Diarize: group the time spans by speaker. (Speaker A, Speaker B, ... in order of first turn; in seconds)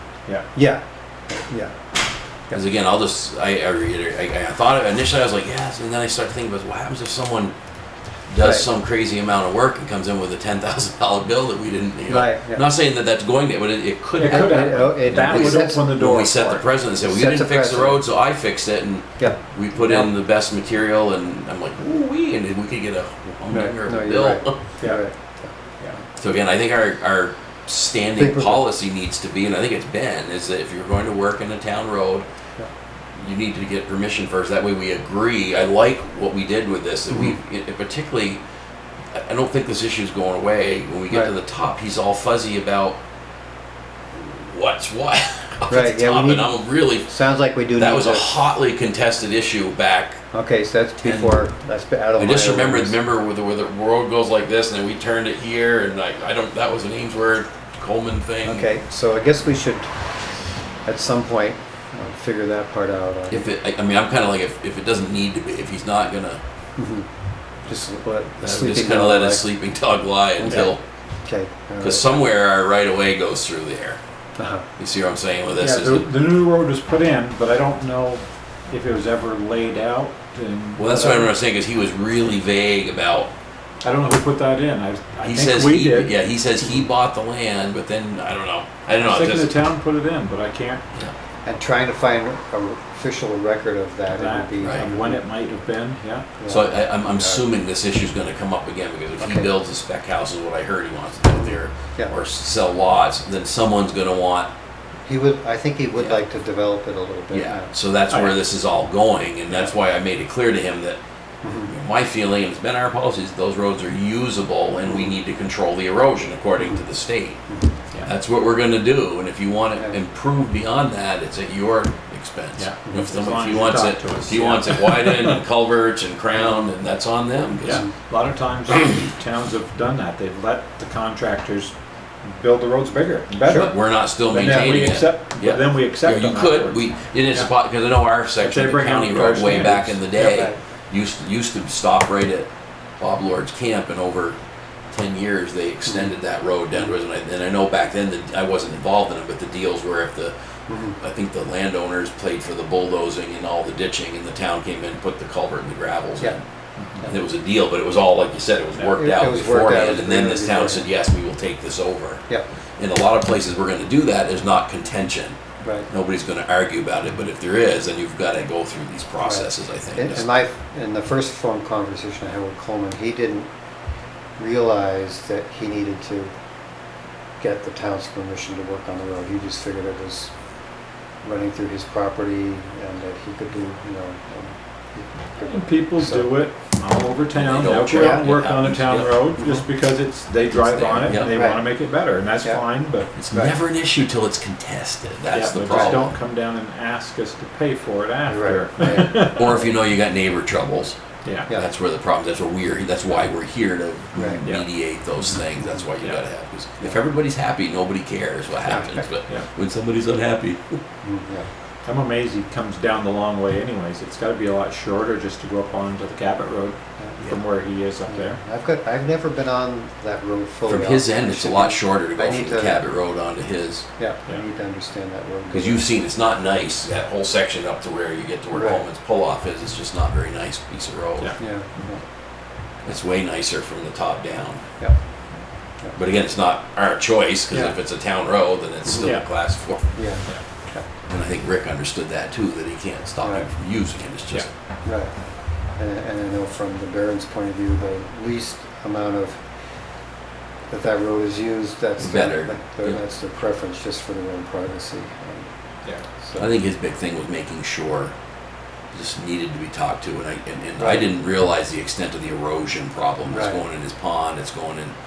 Speaker A: 0.5-1.7, 8.4-8.7, 12.1-12.6, 14.2-15.9, 17.0-18.0, 23.5-25.5, 28.2-28.6, 37.1-37.4, 45.7-48.3, 50.3-53.0, 58.4-59.9, 60.8-63.4, 66.8-67.1, 67.7-69.5, 70.4-70.7, 71.2-72.2, 74.4-74.7, 91.4-95.2, 96.4-97.4, 99.2-99.5, 105.0-107.7, 111.4-111.7, 114.8-115.1, 116.6-116.8, 117.5-117.8, 122.8-123.2, 127.6-127.9, 134.4-134.7, 140.2-140.6, 145.8-146.1, 150.7-151.0, 158.9-160.9, 165.6-165.9, 169.2-173.5, 174.4-176.3, 177.4-180.3, 181.2-186.3, 187.9-188.3, 189.4-189.7, 191.2-191.7, 193.3-193.5, 195.7-196.1, 198.3-199.7, 204.1-204.4, 205.6-205.9, 208.6-209.1, 211.0-211.5, 218.0-222.8, 224.0-225.8, 228.5-228.8, 231.4-232.0, 238.8-239.1, 239.9-240.8, 243.2-243.5, 244.8-245.1, 245.7-249.4, 250.7-255.5, 256.1-256.5, 260.8-261.0, 263.2-263.6
Speaker B: 2.5-7.5, 8.3-24.6, 26.1-32.2, 33.1-38.4, 39.1-43.0, 44.1-47.1, 47.8-50.2, 51.0-51.5, 52.2-58.7, 63.3-66.4, 68.4-70.8, 71.8-74.0, 74.8-76.1, 80.8-83.3, 85.2-89.6, 94.6-94.9, 96.5-104.5, 106.0-106.2, 107.3-111.0, 111.7-117.4, 118.0-127.8, 133.4-144.4, 144.9-150.3, 151.0-156.4, 157.0-162.2, 162.8-165.4, 165.9-170.2, 187.3-189.2, 190.6-191.3, 193.2-196.1, 198.8-200.9, 201.5-210.8, 220.7-223.8, 225.5-231.3, 232.8-234.6, 235.9-239.9, 241.1-244.5, 252.0-253.0, 256.4-258.1, 258.9-264.9
Speaker C: 14.2-16.6, 75.6-81.3, 83.8-86.1, 89.0-90.8, 94.1-96.3, 108.1-108.4, 122.6-125.4, 127.6-133.7, 134.3-137.5, 138.4-140.1, 156.8-157.1, 185.4-193.1, 195.3-199.6, 201.2-201.5, 211.8-218.4